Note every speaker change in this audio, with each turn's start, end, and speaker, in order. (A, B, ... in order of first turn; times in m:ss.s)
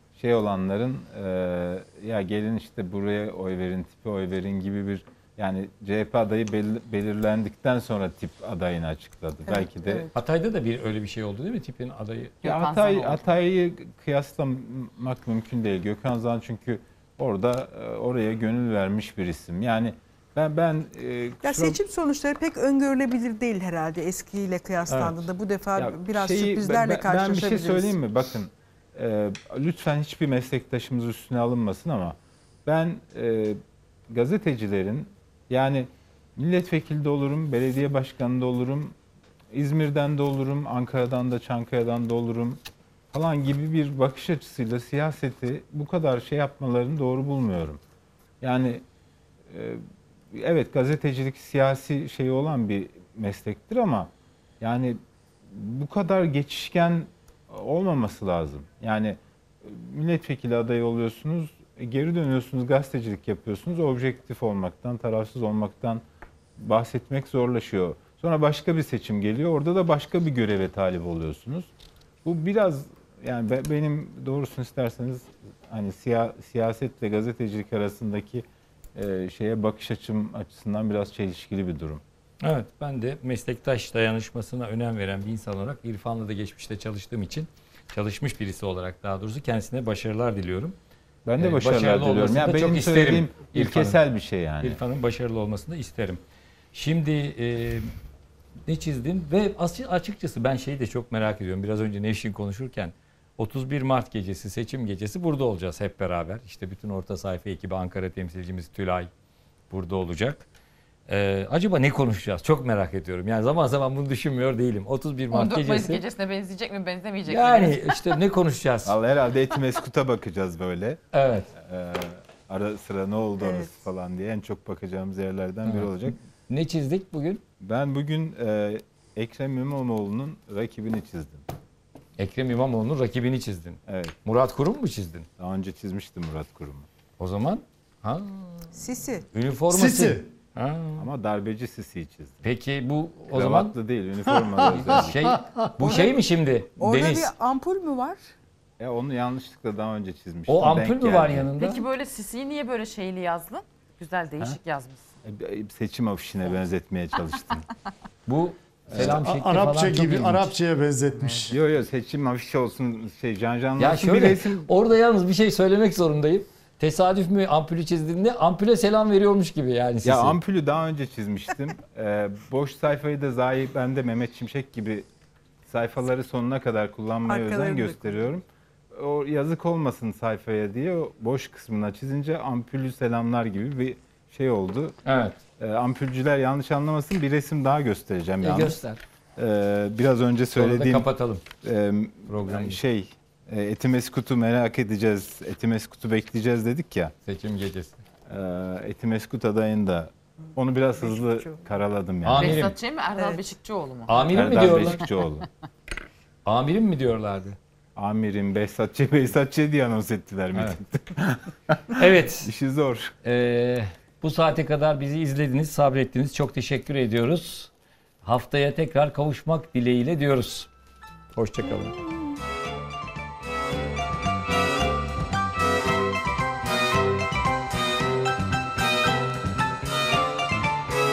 0:00.2-0:10.1 A
0:09.5-0:10.1 B
0:10.1-0:12.4 C
0:12.4-0:13.2 D
0:12.4-0:21.8 A
0:21.4-0:28.0 B
0:24.9-0:25.2 C
0:25.8-0:39.0 A
0:39.5-0:42.6 A
0:43.1-0:47.8 A
0:48.4-0:48.8 A
0:49.5-1:06.0 A
1:06.6-1:11.7 A
1:12.2-1:22.0 A
1:22.4-1:30.8 C
1:31.2-1:34.8 A
1:31.4-1:34.0 C
1:34.6-1:36.2 C
1:36.7-1:37.9 C
1:38.6-1:49.1 C
1:49.7-1:50.4 C
1:51.1-1:56.0 C
1:55.3-1:58.0 D
1:57.3-1:59.0 C
1:58.8-2:01.0 A
2:01.1-2:01.5 C
2:01.5-2:06.2 A
2:03.4-2:03.7 B
2:05.6-2:05.9 C
2:06.5-2:07.4 C
2:07.6-2:11.4 A
2:12.2-2:15.3 C
2:13.9-2:14.1 A
2:15.4-2:16.9 A
2:17.2-2:18.6 C
2:18.7-2:19.2 B
2:19.3-2:21.1 C
2:19.7-2:20.3 E
2:21.0-2:22.5 A
2:22.4-2:23.7 C
2:23.3-2:25.3 A
2:24.2-2:25.9 E
2:24.6-2:27.3 C
2:25.8-2:26.1 B
2:26.8-2:28.2 B
2:28.8-2:31.5 A
2:30.5-2:31.8 C
2:31.6-2:35.1 D
2:35.2-2:37.7 A
2:38.3-2:40.5 C
2:38.9-2:39.3 A
2:39.0-2:41.6 E
2:41.5-2:44.7 A
2:43.8-2:50.4 C
2:50.0-2:55.1 A
2:55.7-3:04.9 A
2:57.3-2:58.3 B
3:05.0-3:05.4 C
3:05.6-3:08.8 A
3:08.4-3:09.0 C
3:09.4-3:11.1 A
3:10.6-3:11.4 C
3:11.6-3:17.1 A
3:12.3-3:12.8 C
3:17.2-3:18.0 C
3:18.3-3:22.6 A
3:21.0-3:21.7 B
3:22.2-3:22.7 C
3:22.3-3:24.9 D
3:24.1-3:25.0 C
3:24.3-3:25.5 A
3:26.4-3:27.6 C
3:28.0-3:33.1 A
3:32.0-3:32.5 C
3:33.2-3:37.7 C
3:38.2-3:40.7 C
3:41.3-3:42.0 C